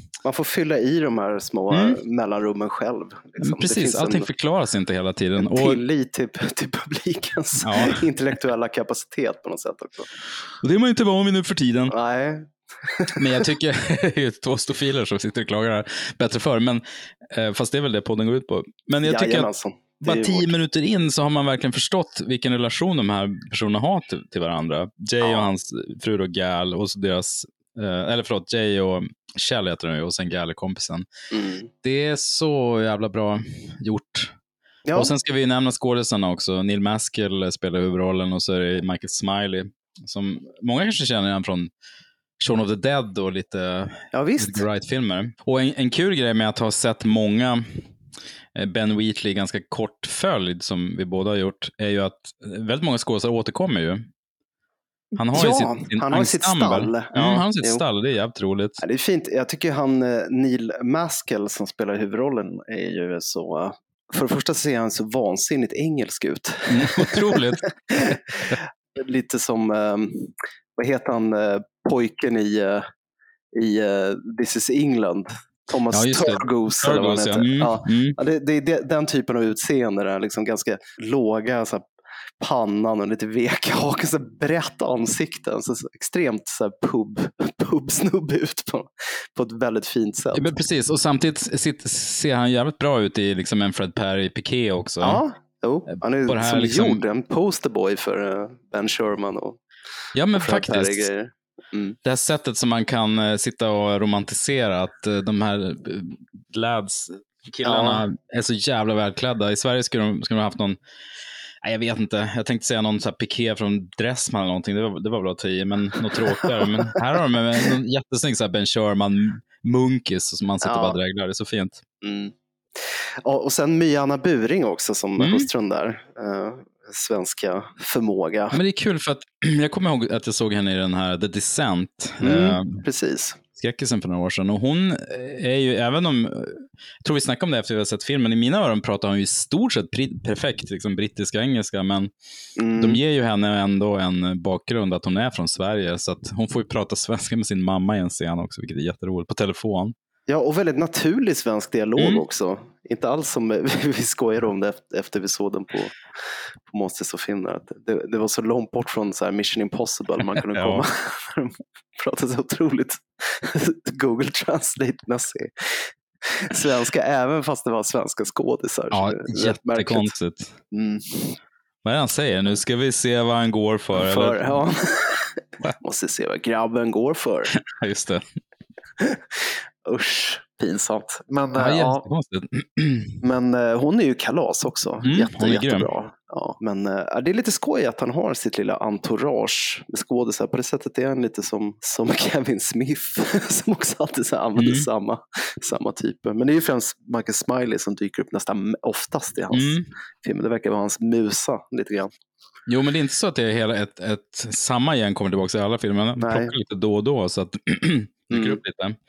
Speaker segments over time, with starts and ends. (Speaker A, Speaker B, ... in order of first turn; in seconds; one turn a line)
Speaker A: 0.2-4.3
Speaker B: 1.7-2.0
Speaker B: 3.4-5.8
Speaker A: 5.4-10.1
Speaker B: 7.6-8.1
Speaker B: 10.6-11.9
Speaker A: 11.9-13.5
Speaker B: 13.2-19.5
Speaker A: 19.0-20.5
Speaker B: 20.0-31.1
Speaker A: 25.2-25.5
Speaker A: 31.3-31.7
Speaker B: 31.8-34.4
Speaker A: 34.9-35.1
Speaker B: 35.0-41.7
Speaker B: 42.4-47.8
Speaker A: 44.1-44.6
Speaker B: 48.5-54.1
Speaker B: 55.2-58.8
Speaker A: 55.3-57.8
Speaker A: 58.8-72.9
Speaker B: 66.7-68.5
Speaker A: 73.5-81.9
Speaker B: 75.9-78.2
Speaker A: 82.4-90.5
Speaker B: 90.3-95.2
Speaker A: 95.0-99.6
Speaker B: 96.2-97.0
Speaker B: 100.2-101.1
Speaker A: 100.3-102.0
Speaker B: 102.0-110.8
Speaker A: 107.6-108.0
Speaker B: 111.6-121.8
Speaker A: 116.3-117.0
Speaker A: 120.6-121.0
Speaker A: 122.0-128.6
Speaker B: 125.2-125.5
Speaker B: 128.5-132.8
Speaker A: 132.2-133.4
Speaker B: 133.6-142.1
Speaker A: 142.6-143.0
Speaker B: 142.8-149.9
Speaker A: 150.3-155.9
Speaker B: 152.0-152.2
Speaker A: 156.7-170.2
Speaker B: 160.4-160.8
Speaker B: 168.9-170.6
Speaker A: 170.7-171.4
Speaker B: 171.8-174.5
Speaker A: 173.9-177.5
Speaker B: 177.5-178.2
Speaker A: 179.0-182.1
Speaker B: 181.6-183.2
Speaker A: 183.2-202.1
Speaker B: 185.0-185.9
Speaker B: 194.6-194.9
Speaker B: 199.5-199.9
Speaker B: 202.7-209.0
Speaker A: 206.2-206.5
Speaker A: 208.3-208.6